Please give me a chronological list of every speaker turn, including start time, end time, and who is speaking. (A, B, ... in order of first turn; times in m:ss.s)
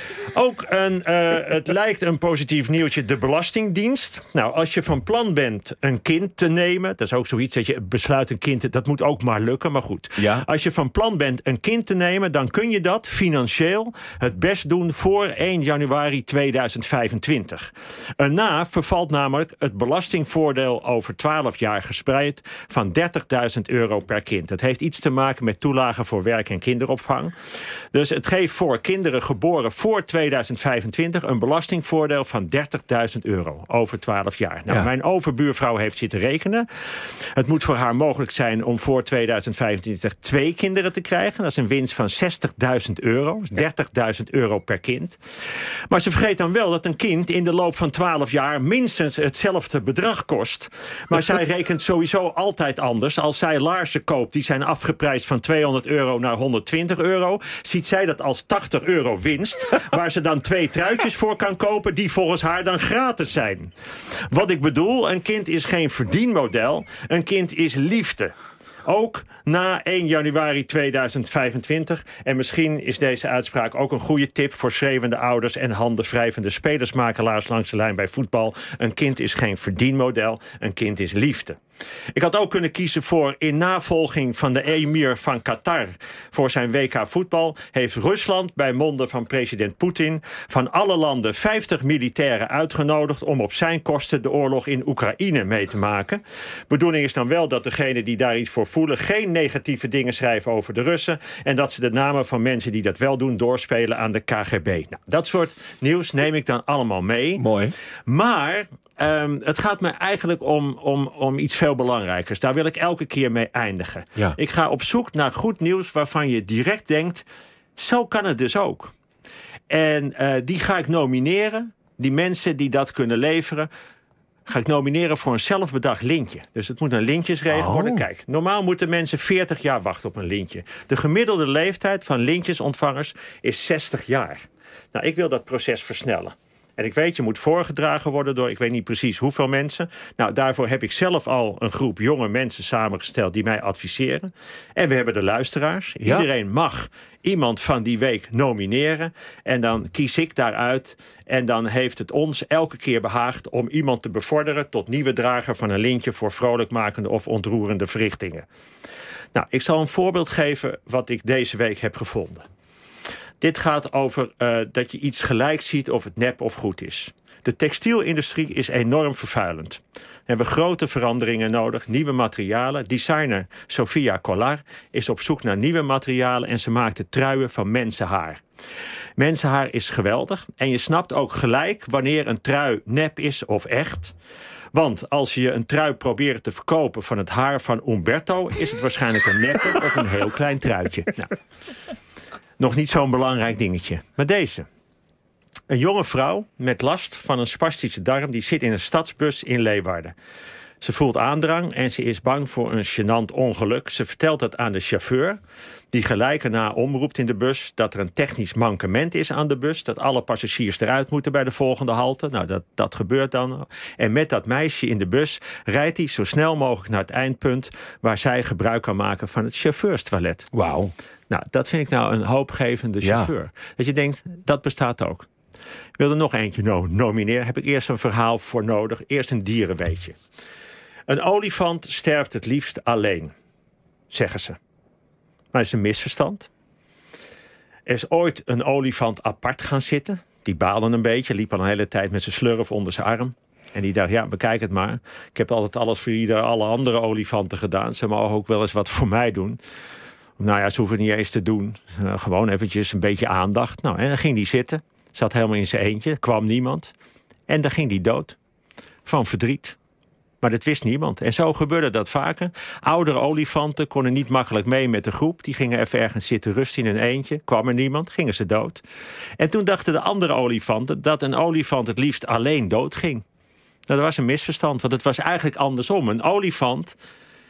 0:00.3-0:27.3 A
0:10.2-0:10.4 B
0:27.9-0:45.2 A
0:45.9-1:03.7 A
1:04.3-1:08.3 A
1:08.8-1:21.6 A
1:22.1-1:47.5 A
1:47.4-1:47.7 B
1:48.1-1:58.9 A
1:59.7-2:03.7 A
2:04.5-2:38.5 A
2:07.5-2:08.1 B
2:26.0-2:26.3 B
2:39.3-2:42.5 A
2:43.4-2:58.4 A
2:59.2-3:04.2 A
3:04.7-3:11.3 A
3:12.6-3:14.7 A
3:15.7-3:20.2 A
3:20.8-3:25.4 A
3:25.9-3:40.5 A
3:40.5-3:40.9 B
3:41.3-3:45.3 A
3:43.0-3:43.3 B
3:46.0-3:50.2 A
3:51.1-3:53.3 A
3:54.1-3:54.6 A
3:55.5-3:56.5 A
3:57.9-4:09.6 A
4:10.4-4:16.9 A
4:17.5-4:18.4 A
4:19.0-4:19.8 A
4:20.4-4:28.8 A
4:29.4-4:33.2 A
4:33.9-4:37.0 A